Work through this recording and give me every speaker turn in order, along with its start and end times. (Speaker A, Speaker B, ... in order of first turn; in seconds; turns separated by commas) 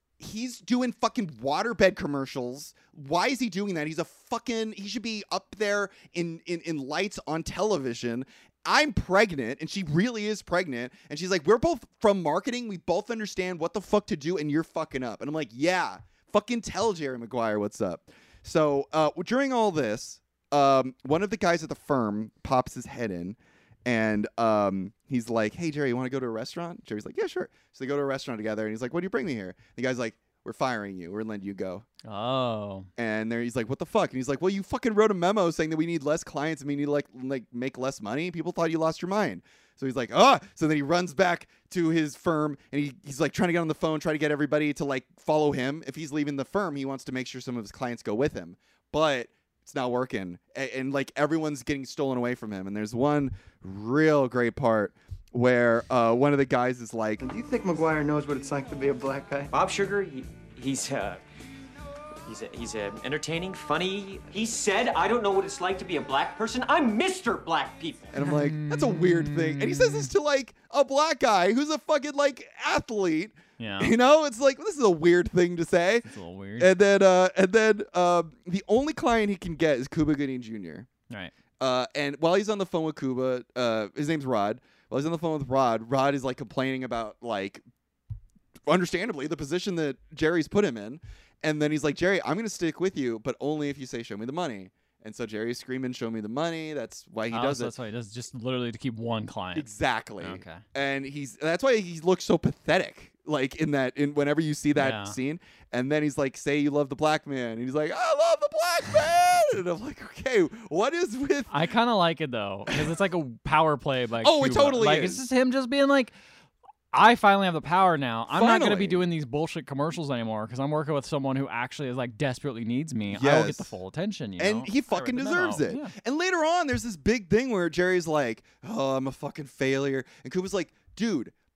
Speaker A: 0.2-31.8, Speaker B: 32.0-32.9, Speaker A: 33.0-57.2, Speaker C: 57.2-59.5, Speaker D: 59.5-61.2, Speaker D: 62.2-68.1, Speaker A: 68.1-80.9, Speaker B: 68.2-70.1, Speaker B: 73.6-73.9, Speaker B: 76.0-76.7, Speaker A: 81.6-87.6, Speaker A: 88.7-97.7, Speaker B: 97.3-99.7, Speaker A: 99.5-111.6, Speaker B: 100.2-100.6, Speaker B: 104.7-105.2, Speaker B: 111.5-116.1, Speaker A: 114.2-115.2, Speaker B: 116.9-125.9, Speaker A: 118.3-119.1, Speaker A: 123.1-123.7, Speaker A: 124.4-131.3